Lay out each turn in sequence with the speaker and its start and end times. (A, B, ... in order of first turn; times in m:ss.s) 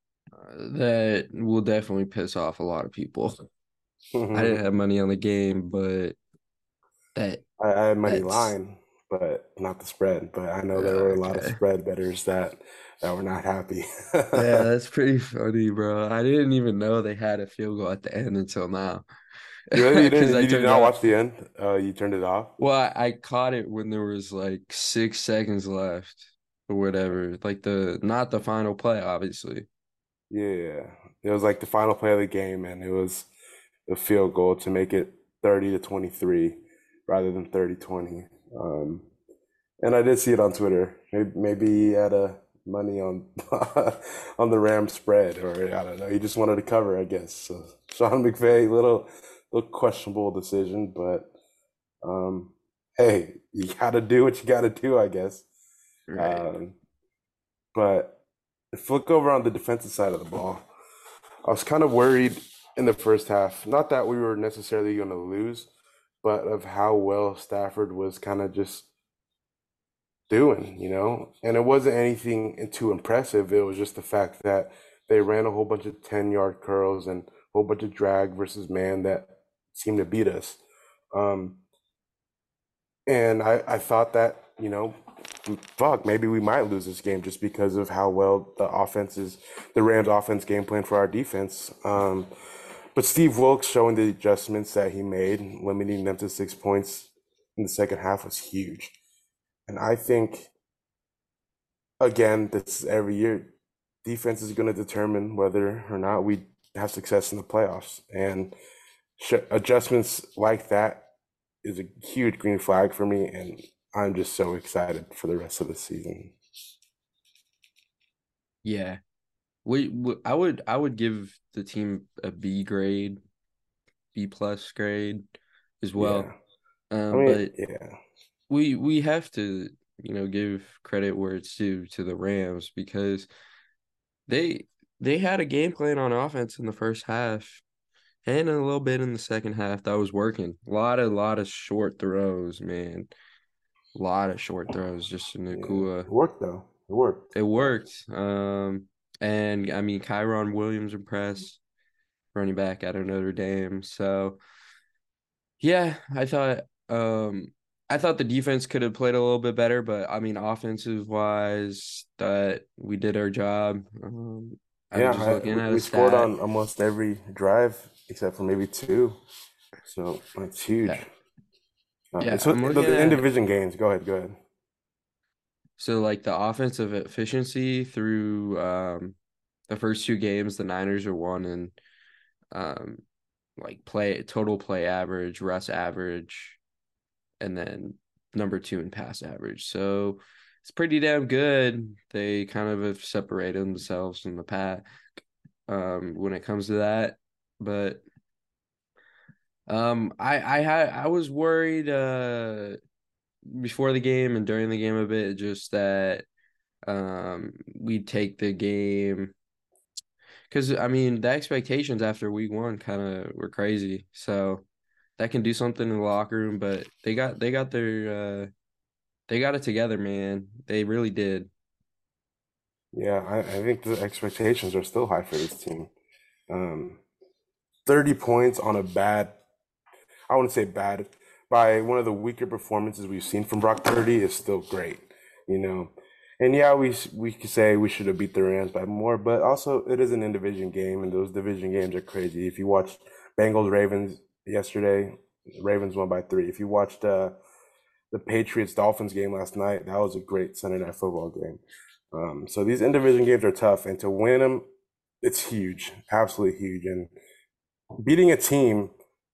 0:00.4-0:03.4 A
0:04.1-0:04.6 B
0:04.3-0:06.2 A
0:07.2-0:07.4 A
0:07.6-0:14.6 B
0:08.0-0:08.5 A
0:10.7-0:11.6 A
0:14.3-0:19.0 A
0:19.7-0:21.0 A
0:19.7-0:22.5 B
0:22.6-0:29.7 A
0:30.3-0:33.3 B
0:33.9-0:39.1 B
0:39.8-0:51.3 B
0:52.0-0:55.4 B
0:56.1-0:56.6 A
0:56.2-0:56.8 B
0:57.7-0:58.2 B
0:58.7-1:00.7 B
1:01.4-1:05.7 B
1:06.2-1:08.9 B
1:10.3-1:20.6 B
1:21.1-1:21.6 B
1:23.1-1:32.3 B
1:32.9-1:39.0 B
1:39.7-1:40.5 B
1:42.0-1:43.5 B
1:44.0-1:48.5 B
1:49.2-1:51.1 B
1:51.6-1:56.4 B
1:58.6-1:59.0 A
1:59.6-2:03.2 A
2:04.1-2:05.2 A
2:05.8-2:06.3 A
2:06.0-2:06.3 B
2:06.9-2:07.5 A
2:07.1-2:08.0 B
2:08.5-2:13.3 A
2:14.3-2:17.6 A
2:18.2-2:23.1 A
2:23.9-2:26.1 A
2:25.5-2:27.7 B
2:27.3-2:31.6 A
2:32.3-2:34.4 A
2:35.6-2:46.3 A
2:44.9-2:49.2 B
2:49.8-2:51.1 B
2:52.1-2:54.4 B
2:52.2-2:53.2 A
2:55.8-2:59.2 A
2:59.7-3:01.8 A
3:02.5-3:03.0 A
3:03.6-3:06.6 A
3:07.4-3:14.8 A
3:15.7-3:18.0 A
3:19.7-3:22.8 A
3:23.4-3:26.2 A
3:26.9-3:29.3 A
3:30.5-3:34.6 A
3:35.2-3:38.5 A
3:39.3-3:41.5 A
3:42.9-3:45.9 B
3:46.5-3:47.0 B
3:47.8-3:49.4 B
3:50.3-4:07.4 B
4:08.1-4:11.6 B
4:12.1-4:14.6 B
4:15.2-4:17.1 B
4:18.0-4:18.9 B